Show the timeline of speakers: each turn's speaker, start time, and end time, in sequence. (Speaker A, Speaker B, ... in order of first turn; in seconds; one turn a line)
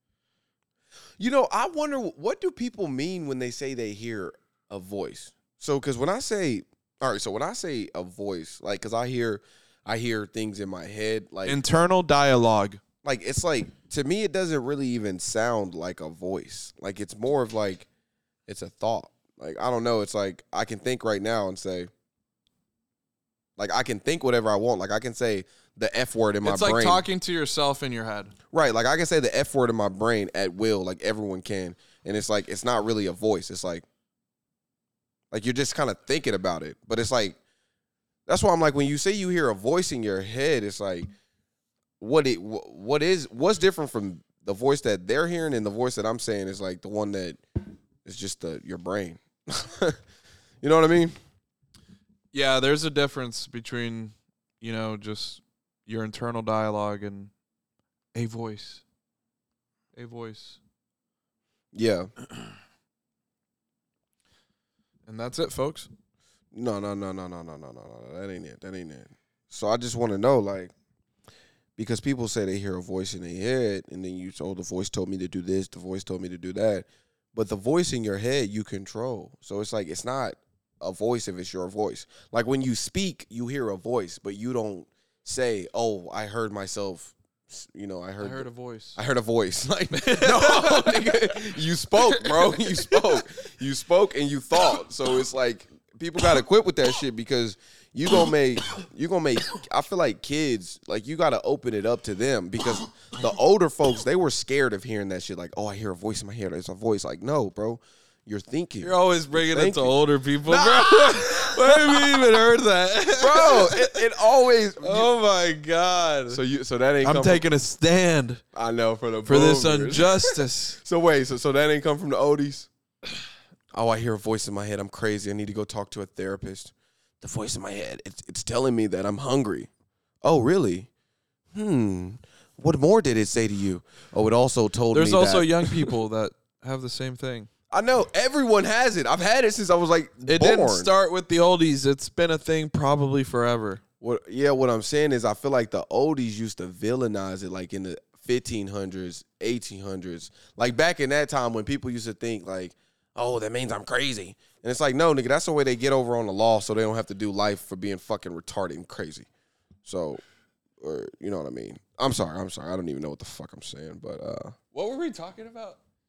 Speaker A: 1.2-11.6
Speaker B: 11.4-12.8
Speaker A: 13.0-17.9
Speaker A: 18.5-21.9
Speaker A: 23.6-27.0
Speaker B: 26.4-28.3
Speaker A: 28.5-33.8
Speaker A: 35.3-37.4
Speaker A: 38.3-41.1
Speaker A: 42.0-47.4
Speaker A: 48.0-50.0
Speaker A: 50.6-51.1
Speaker B: 52.3-57.3
Speaker B: 58.1-58.8
Speaker B: 59.9-60.6
Speaker A: 61.7-62.1
Speaker B: 65.0-65.9
Speaker A: 66.5-70.7
Speaker A: 71.8-112.5
Speaker B: 88.2-89.0
Speaker B: 89.9-91.5
Speaker B: 92.0-93.2
Speaker B: 108.8-114.0
Speaker A: 113.1-115.1
Speaker B: 114.8-116.4
Speaker A: 116.3-117.5
Speaker B: 117.0-118.4
Speaker A: 118.5-122.7
Speaker B: 119.2-120.8
Speaker A: 123.7-129.7
Speaker A: 130.2-130.9
Speaker A: 131.5-135.9
Speaker B: 134.9-137.5
Speaker A: 137.7-140.9
Speaker B: 140.2-143.8
Speaker A: 144.0-159.3
Speaker A: 159.8-160.2
Speaker A: 160.8-164.6
Speaker B: 164.7-165.8